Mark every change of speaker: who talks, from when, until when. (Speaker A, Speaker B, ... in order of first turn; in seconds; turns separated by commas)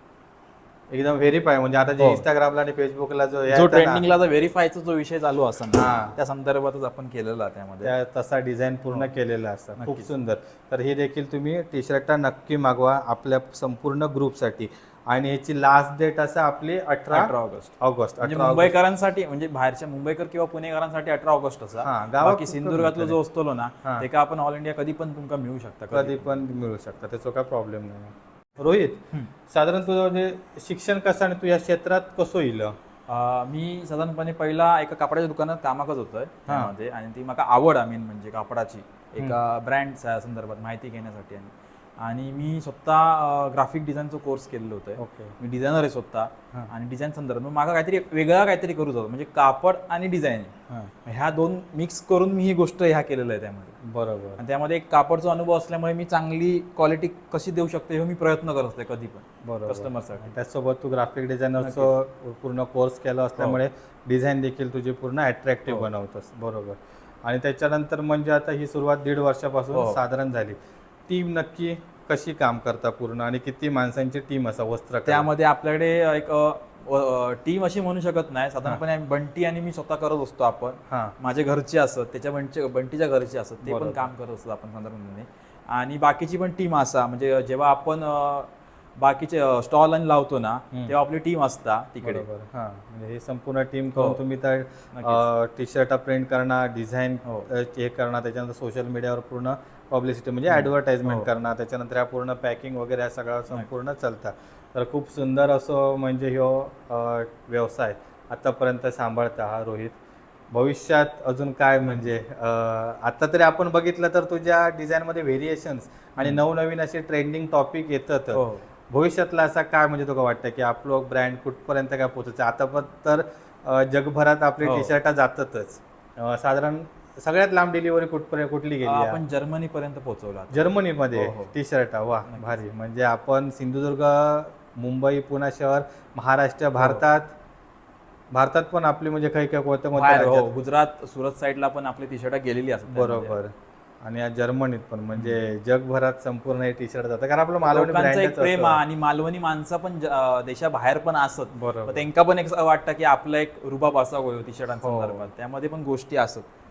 Speaker A: 0.9-4.0, Speaker B: 2.0-2.2, Speaker B: 3.5-7.9, Speaker A: 5.7-6.2, Speaker A: 7.8-18.8, Speaker B: 9.8-10.1, Speaker B: 17.1-26.3, Speaker A: 21.8-23.2, Speaker A: 25.9-32.8, Speaker B: 33.1-50.5, Speaker A: 45.0-45.4, Speaker B: 51.0-53.7, Speaker A: 53.8-54.4, Speaker B: 54.4-60.3, Speaker A: 59.4-70.6, Speaker B: 61.6-61.9, Speaker B: 69.7-70.0, Speaker A: 71.1-75.3, Speaker B: 75.1-92.2, Speaker A: 83.7-84.1, Speaker A: 92.0-110.0, Speaker B: 94.9-95.2, Speaker B: 100.5-101.3, Speaker A: 110.5-129.2, Speaker B: 111.8-112.1, Speaker B: 118.3-118.6, Speaker B: 124.6-124.9, Speaker B: 128.8-131.5, Speaker A: 130.5-137.3, Speaker B: 132.3-132.6, Speaker A: 138.3-140.6, Speaker B: 139.9-143.3, Speaker A: 142.9-143.5, Speaker A: 144.0-148.8, Speaker B: 147.6-156.5, Speaker A: 151.5-152.1, Speaker A: 154.8-155.3